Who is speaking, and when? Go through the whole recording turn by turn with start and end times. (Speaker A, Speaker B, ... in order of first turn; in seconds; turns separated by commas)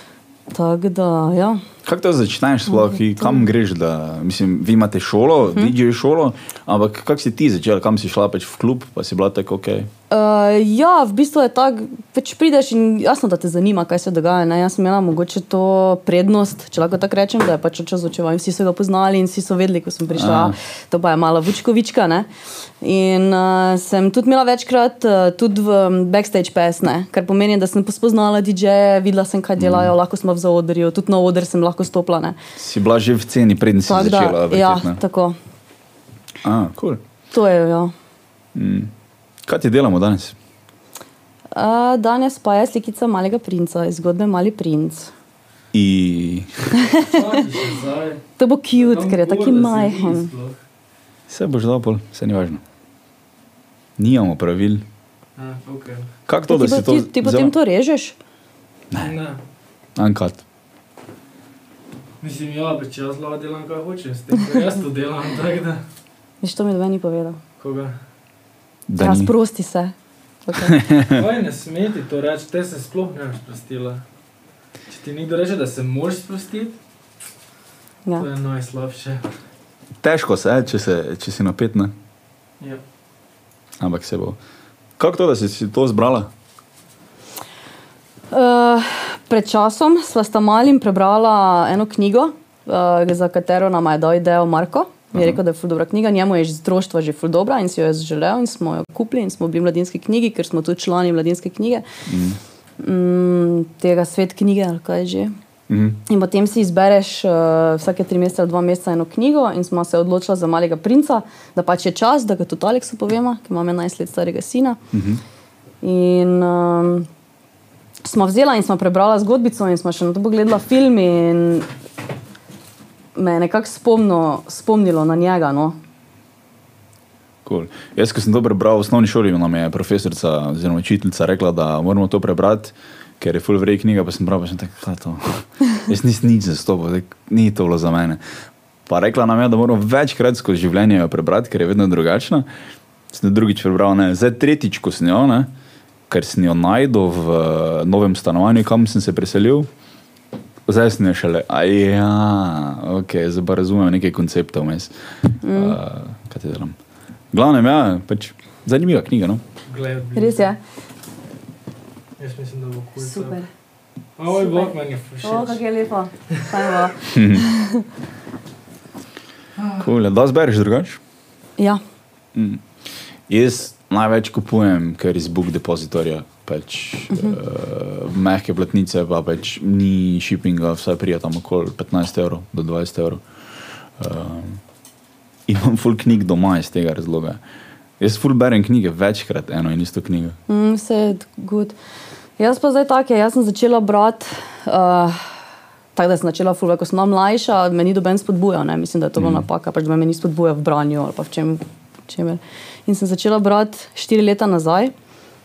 Speaker A: 0.5-1.6, Speaker B: 1.9-9.9, Speaker A: 10.1-22.3, Speaker B: 20.1-20.6, Speaker A: 22.8-32.4, Speaker B: 29.6-29.9, Speaker B: 32.6-35.0, Speaker A: 33.9-35.4, Speaker B: 36.4-37.0, Speaker A: 37.3-37.9, Speaker B: 38.5-38.9, Speaker B: 39.5-40.4, Speaker A: 41.5-45.1, Speaker B: 45.7-46.7, Speaker A: 46.7-47.4, Speaker C: 47.0-48.2, Speaker A: 48.4-50.3, Speaker C: 48.8-50.6, Speaker B: 51.3-52.6, Speaker B: 54.0-54.9, Speaker C: 55.4-56.1, Speaker B: 56.3-57.5, Speaker A: 56.5-58.2, Speaker C: 59.0-59.4, Speaker B: 60.0-60.4, Speaker C: 62.2-65.8, Speaker A: 66.4-67.4, Speaker C: 67.6-68.0, Speaker B: 68.9-69.3, Speaker A: 69.0-69.9, Speaker A: 70.5-70.8, Speaker B: 70.6-71.2, Speaker C: 71.1-74.0, Speaker C: 74.9-76.8, Speaker C: 78.2-79.3, Speaker B: 80.0-81.9, Speaker B: 83.8-84.4, Speaker B: 85.0-86.3, Speaker A: 88.3-101.8, Speaker B: 95.2-95.4, Speaker B: 102.1-102.4, Speaker A: 102.8-105.3, Speaker B: 105.7-106.0, Speaker A: 106.1-114.8, Speaker B: 114.9-115.2, Speaker A: 115.8-117.1, Speaker A: 118.0-121.7, Speaker A: 123.2-125.8, Speaker B: 127.5-138.2, Speaker B: 138.9-142.5, Speaker B: 143.1-145.5, Speaker B: 146.1-149.7, Speaker B: 150.7-154.9, Speaker A: 155.4-155.8, Speaker B: 155.5-156.8, Speaker B: 157.3-159.4, Speaker C: 159.7-160.5, Speaker A: 160.2-160.6, Speaker C: 162.2-163.4, Speaker A: 163.0-163.5, Speaker C: 164.2-165.6, Speaker A: 164.3-167.8, Speaker B: 167.1-167.5, Speaker C: 169.6-169.9, Speaker B: 169.8-171.0, Speaker B: 172.3-172.7, Speaker B: 173.3-183.2, Speaker A: 177.1-177.4, Speaker B: 184.0-184.6, Speaker B: 185.5-187.4, Speaker B: 188.0-190.4, Speaker A: 190.5-191.8, Speaker A: 192.4-195.3, Speaker A: 195.9-204.9, Speaker B: 199.2-199.4